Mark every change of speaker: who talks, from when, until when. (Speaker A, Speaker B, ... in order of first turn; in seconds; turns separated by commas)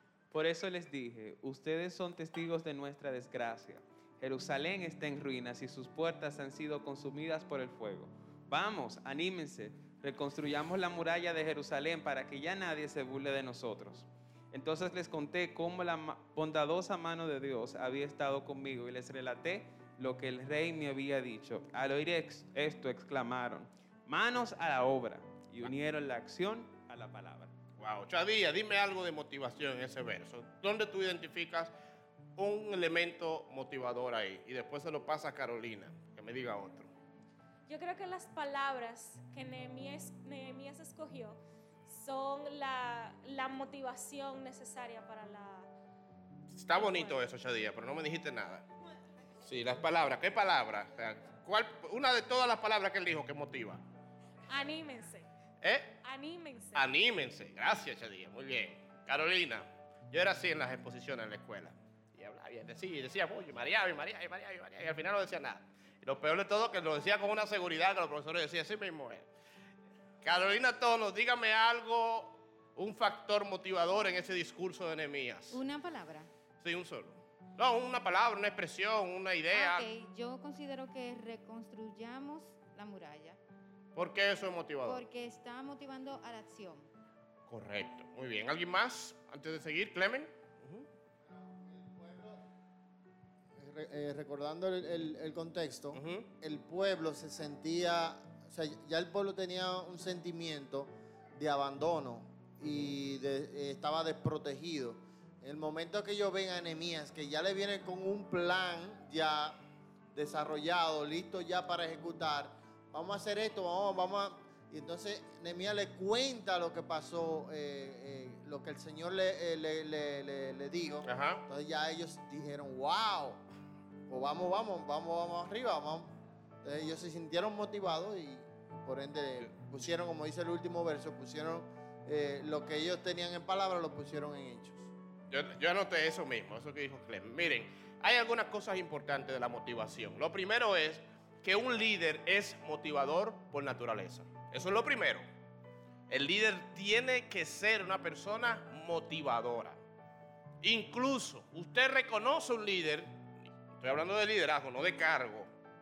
Speaker A: 0.3-27.5, Speaker B: 27.8-31.7, Speaker B: 32.4-36.9, Speaker C: 37.7-45.7, Speaker B: 46.5-48.6, Speaker C: 46.7-47.2, Speaker B: 49.4-53.8, Speaker C: 54.5-55.3, Speaker B: 55.6-56.0, Speaker C: 56.0-56.9, Speaker B: 56.7-69.3, Speaker B: 70.2-75.6, Speaker D: 75.5-76.3, Speaker B: 76.6-79.9, Speaker D: 79.5-83.4, Speaker B: 84.0-85.0, Speaker D: 84.8-86.9, Speaker B: 87.5-90.9, Speaker E: 91.4-92.4, Speaker E: 93.6-109.6, Speaker B: 95.9-96.3, Speaker E: 110.1-123.4, Speaker B: 121.0-121.4, Speaker E: 124.1-126.1, Speaker E: 126.6-134.9, Speaker B: 135.3-145.2, Speaker B: 146.1-149.8, Speaker B: 150.6-153.1, Speaker B: 153.8-155.5